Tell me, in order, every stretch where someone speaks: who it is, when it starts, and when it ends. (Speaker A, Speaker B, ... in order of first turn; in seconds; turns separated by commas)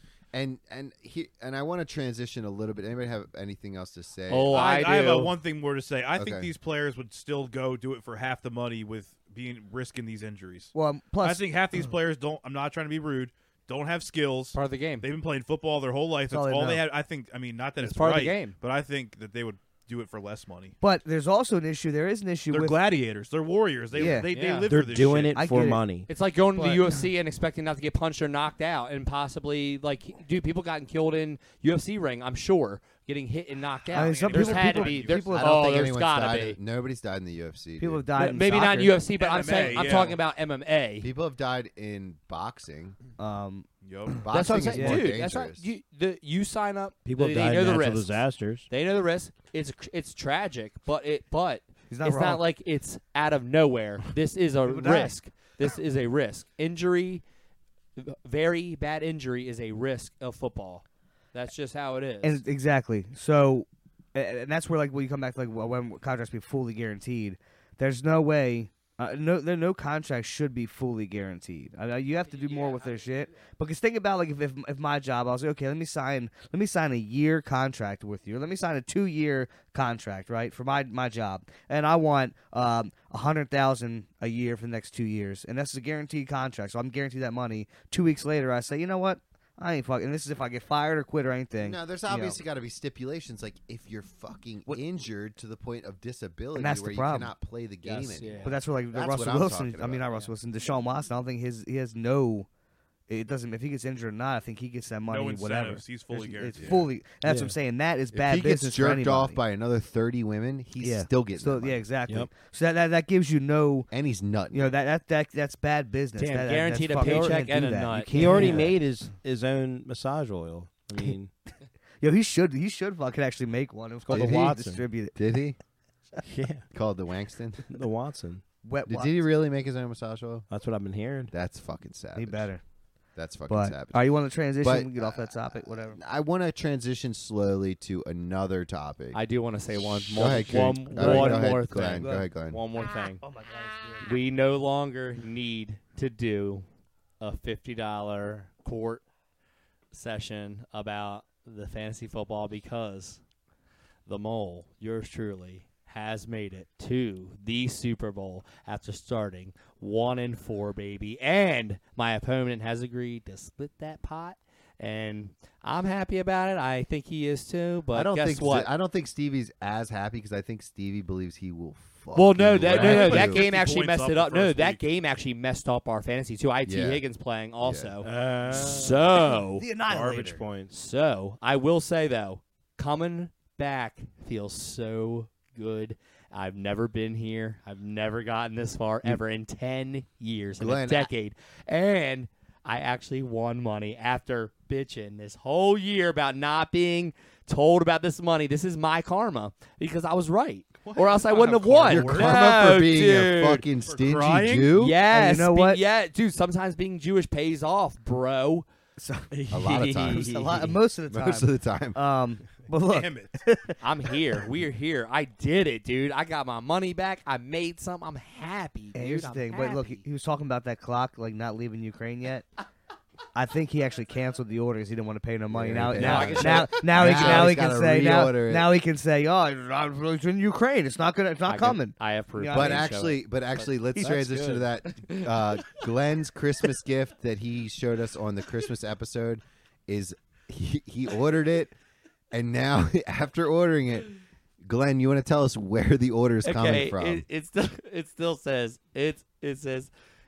Speaker A: 0.3-4.6, Speaker B: 4.3-5.3, Speaker C: 4.5-20.8, Speaker A: 6.2-6.5, Speaker D: 10.7-11.4, Speaker B: 14.5-15.1, Speaker D: 16.3-16.8, Speaker B: 17.8-18.6, Speaker D: 20.8-22.8, Speaker C: 22.5-25.4, Speaker D: 23.9-24.3, Speaker B: 24.1-24.7, Speaker E: 24.7-26.1, Speaker D: 25.4-25.8, Speaker B: 26.1-36.6, Speaker D: 26.6-26.8, Speaker D: 33.9-35.5, Speaker C: 33.9-35.4, Speaker A: 34.8-38.1, Speaker D: 37.8-39.0, Speaker B: 38.2-41.1, Speaker C: 39.1-40.2, Speaker A: 41.0-43.0, Speaker D: 43.2-43.7, Speaker C: 43.8-44.3, Speaker A: 44.2-45.7, Speaker B: 44.3-48.1, Speaker D: 44.6-45.1, Speaker E: 47.0-48.7, Speaker B: 48.7-57.2, Speaker D: 51.9-52.4, Speaker D: 54.7-55.1, Speaker B: 58.0-62.4, Speaker D: 62.2-92.4, Speaker B: 72.2-73.3, Speaker A: 91.6-100.1, Speaker D: 96.5-97.3, Speaker B: 97.8-98.6, Speaker D: 98.4-102.5, Speaker D: 103.1-109.4, Speaker C: 105.1-106.8, Speaker E: 107.2-107.5, Speaker A: 108.1-111.8, Speaker D: 110.8-113.9, Speaker A: 113.9-114.7, Speaker D: 114.5-118.7, Speaker B: 116.2-118.4, Speaker E: 117.0-117.5, Speaker E: 118.0-121.3, Speaker A: 118.4-118.7, Speaker D: 122.0-125.2, Speaker E: 124.0-124.8, Speaker A: 124.1-124.5, Speaker A: 125.2-125.6, Speaker E: 126.2-126.7, Speaker A: 126.7-127.7, Speaker E: 127.7-128.4, Speaker D: 128.6-129.2, Speaker A: 128.9-130.5, Speaker E: 130.5-131.3, Speaker A: 131.3-132.5, Speaker D: 132.2-132.6, Speaker A: 133.2-139.2, Speaker D: 133.5-136.0, Speaker B: 139.1-143.2, Speaker A: 139.8-142.6, Speaker D: 141.0-142.3, Speaker D: 143.2-144.1, Speaker B: 144.0-146.7, Speaker B: 147.2-149.0, Speaker B: 149.9-153.2, Speaker B: 154.1-168.7, Speaker A: 167.9-173.4, Speaker B: 172.2-179.7, Speaker C: 172.7-174.9, Speaker E: 172.7-173.2, Speaker A: 176.7-177.0, Speaker A: 177.6-178.0, Speaker E: 178.0-180.8, Speaker D: 179.6-180.4, Speaker B: 180.7-203.7, Speaker A: 190.6-191.1, Speaker C: 200.8-202.5, Speaker A: 201.9-204.9, Speaker C: 203.8-204.7, Speaker B: 204.7-208.7, Speaker D: 205.1-205.8, Speaker D: 209.0-209.3, Speaker E: 209.3-210.7, Speaker A: 209.5-212.0, Speaker D: 210.0-213.8, Speaker C: 212.9-213.4, Speaker B: 213.8-220.0, Speaker D: 218.9-222.5, Speaker D: 223.3-232.9, Speaker A: 225.5-228.7, Speaker B: 226.0-227.6, Speaker B: 231.5-233.7, Speaker A: 232.5-241.7, Speaker E: 234.0-234.7, Speaker B: 234.9-235.2, Speaker A: 242.3-244.1, Speaker A: 244.7-247.2, Speaker B: 246.4-249.9